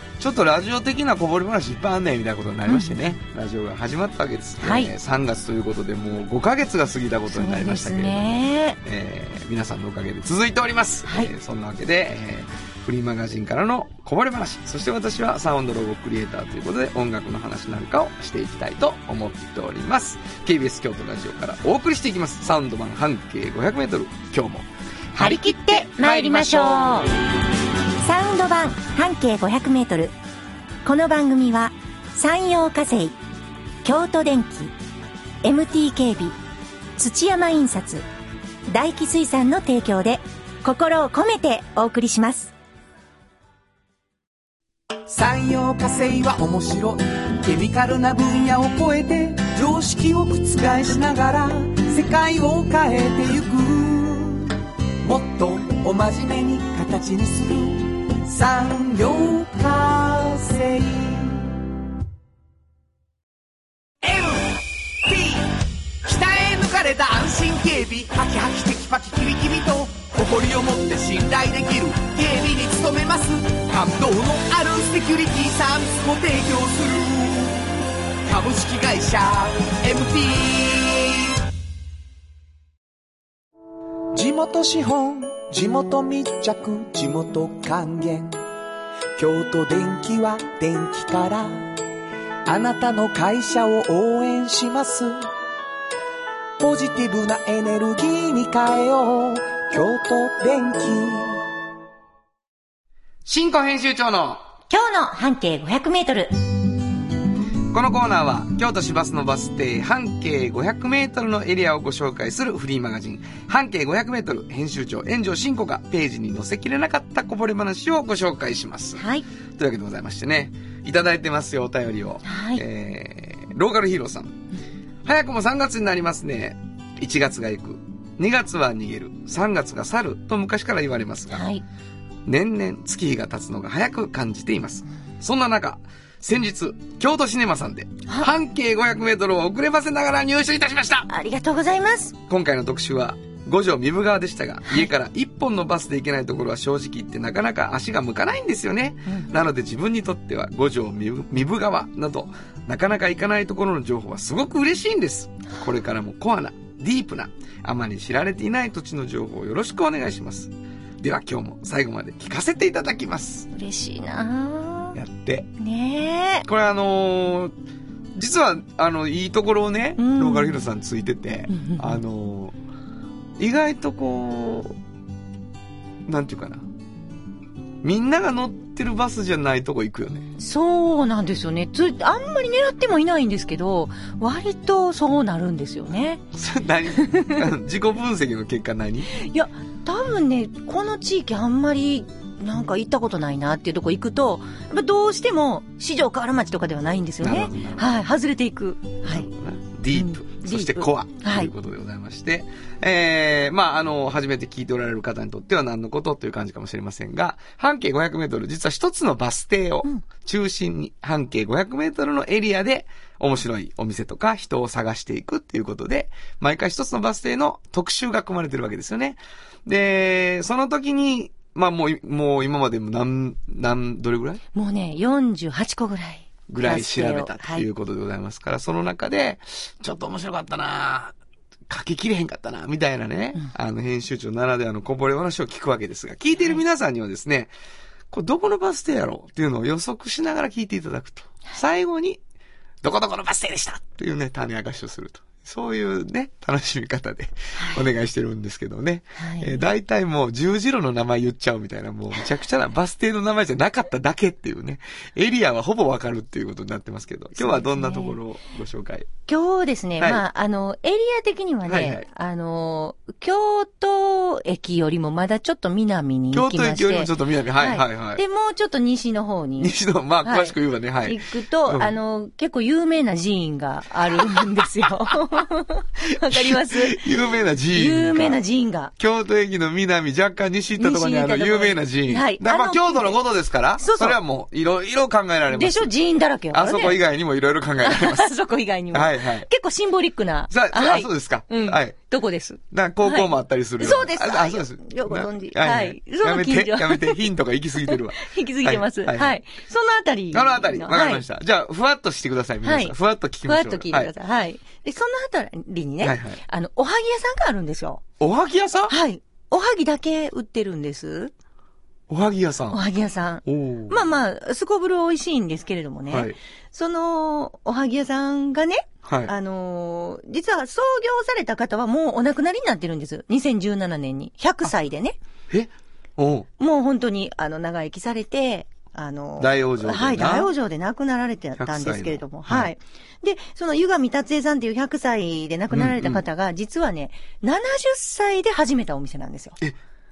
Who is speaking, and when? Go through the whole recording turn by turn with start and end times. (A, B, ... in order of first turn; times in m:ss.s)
0:00.2-0:27.1 A
0:02.7-0:03.0 B
0:04.6-0:04.9 B
0:07.3-0:08.8 B
0:11.1-0:11.3 B
0:25.2-0:27.1 B
0:28.0-0:30.2 B
0:30.8-0:33.2 B
0:33.8-0:34.8 B
0:35.4-0:36.4 B
0:37.0-0:38.0 B
0:38.7-0:42.5 B
0:45.1-1:01.6 C
1:04.0-1:21.4 C
1:24.1-1:28.4 C
1:29.2-1:31.8 C
1:32.5-1:35.3 C
1:36.6-1:41.4 C
1:43.2-1:44.4 A
1:44.7-1:46.3 B
1:47.7-1:59.0 A
1:59.0-1:59.2 B
1:59.6-2:04.4 A
2:02.2-2:02.6 B
2:05.0-2:11.4 A
2:11.3-2:11.6 B
2:12.3-2:21.1 A
2:21.1-2:22.2 B
2:22.3-2:43.5 A
2:43.5-2:45.0 B
2:44.9-2:45.5 A
2:45.6-2:46.5 B
2:46.5-2:47.5 A
2:48.2-2:52.6 A
2:50.0-2:50.6 B
2:51.5-2:52.0 B
2:53.4-2:54.8 A
2:56.1-2:56.6 A
2:57.8-3:00.3 A
3:00.4-3:06.2 B
3:06.3-3:09.1 A
3:07.0-3:07.4 B
3:09.1-3:19.3 B
3:17.2-3:17.9 A
3:19.0-3:44.4 A
3:19.9-3:21.5 B
3:44.5-3:47.7 B
3:46.5-3:51.2 A
3:51.7-3:57.5 A
3:58.1-4:02.2 A
4:02.8-4:19.1 A
4:07.6-4:07.8 B
4:09.2-4:09.6 B
4:17.4-4:18.2 B
4:19.3-4:37.0 B
4:21.7-4:22.1 A
4:26.3-4:28.2 A
4:29.6-4:31.9 A
4:36.2-4:38.4 A
4:37.7-4:38.9 B
4:39.0-4:45.9 A
4:40.8-4:43.2 B
4:43.8-4:44.2 B
4:45.5-4:47.0 B
4:46.5-4:48.3 A
4:47.8-4:57.3 B
4:48.9-4:49.5 A
4:50.5-4:52.0 A
4:52.7-4:59.4 A
4:57.9-5:01.2 B
5:00.3-5:04.1 A
5:02.6-5:08.0 B
5:06.0-5:06.4 A
5:08.2-5:09.0 A
5:08.9-5:11.3 B
5:12.1-5:12.8 A
5:12.7-5:25.2 B
5:13.5-5:14.0 A
5:16.1-5:16.4 A
5:19.0-5:19.3 A
5:25.5-5:26.5 A
5:26.6-5:39.6 B
5:29.4-5:30.5 A
5:31.6-5:32.7 A
5:35.7-5:36.2 A